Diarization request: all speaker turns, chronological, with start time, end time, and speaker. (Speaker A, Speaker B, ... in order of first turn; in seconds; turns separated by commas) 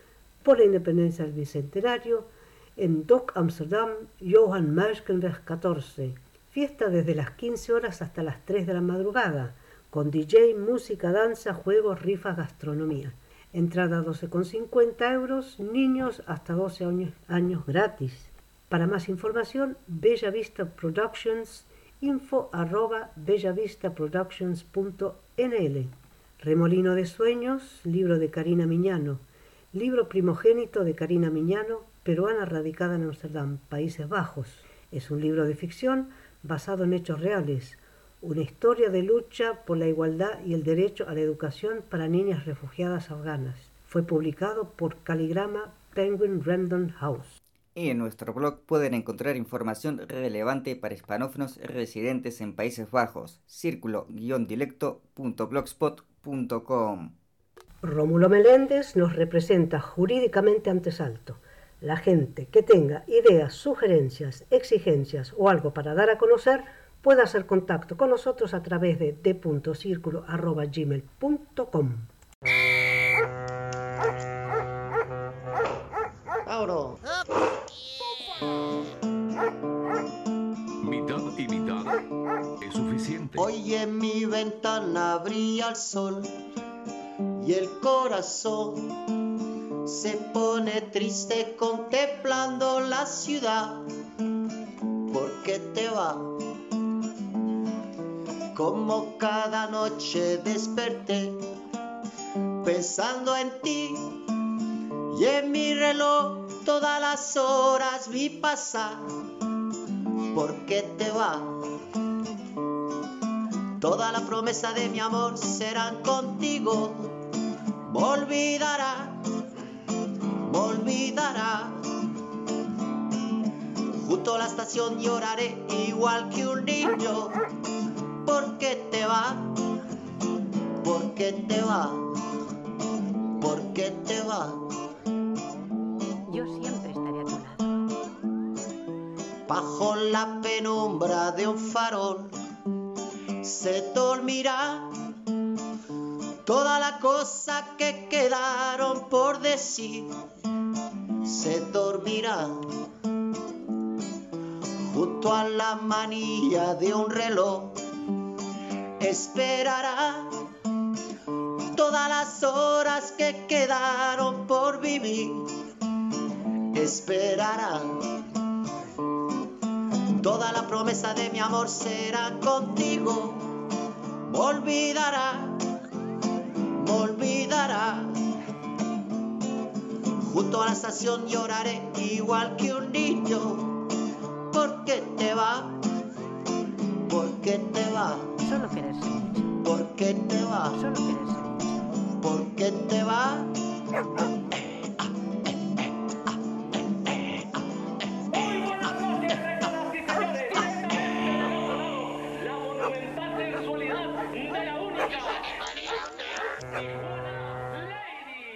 Speaker A: 0.4-47.4, Speaker B: 47.7-57.1, Speaker A: 57.8-72.1, Speaker C: 76.5-77.0, Speaker D: 80.8-82.0, Speaker D: 82.6-83.5, Speaker C: 83.3-86.3, Speaker C: 87.4-88.9, Speaker C: 89.8-93.8, Speaker C: 95.1-96.3, Speaker C: 98.5-101.4, Speaker C: 102.6-104.1, Speaker C: 105.1-109.0, Speaker C: 110.3-111.5, Speaker C: 113.8-117.1, Speaker C: 117.9-119.2, Speaker C: 120.5-121.8, Speaker C: 124.0-127.3, Speaker C: 128.2-129.6, Speaker C: 130.8-132.1, Speaker C: 133.4-134.6, Speaker E: 136.3-137.7, Speaker C: 139.5-142.3, Speaker C: 143.4-144.9, Speaker C: 146.4-150.1, Speaker C: 151.2-152.6, Speaker C: 154.8-157.8, Speaker C: 159.0-160.3, Speaker C: 161.7-165.5, Speaker C: 166.7-168.0, Speaker C: 170.2-173.5, Speaker C: 174.2-175.6, Speaker C: 176.8-178.1, Speaker C: 180.2-183.8, Speaker C: 184.5-185.8, Speaker C: 187.1-188.4, Speaker E: 188.4-189.5, Speaker C: 189.6-190.8, Speaker E: 190.7-191.8, Speaker C: 192.2-193.5, Speaker E: 198.3-205.4, Speaker E: 207.1-208.3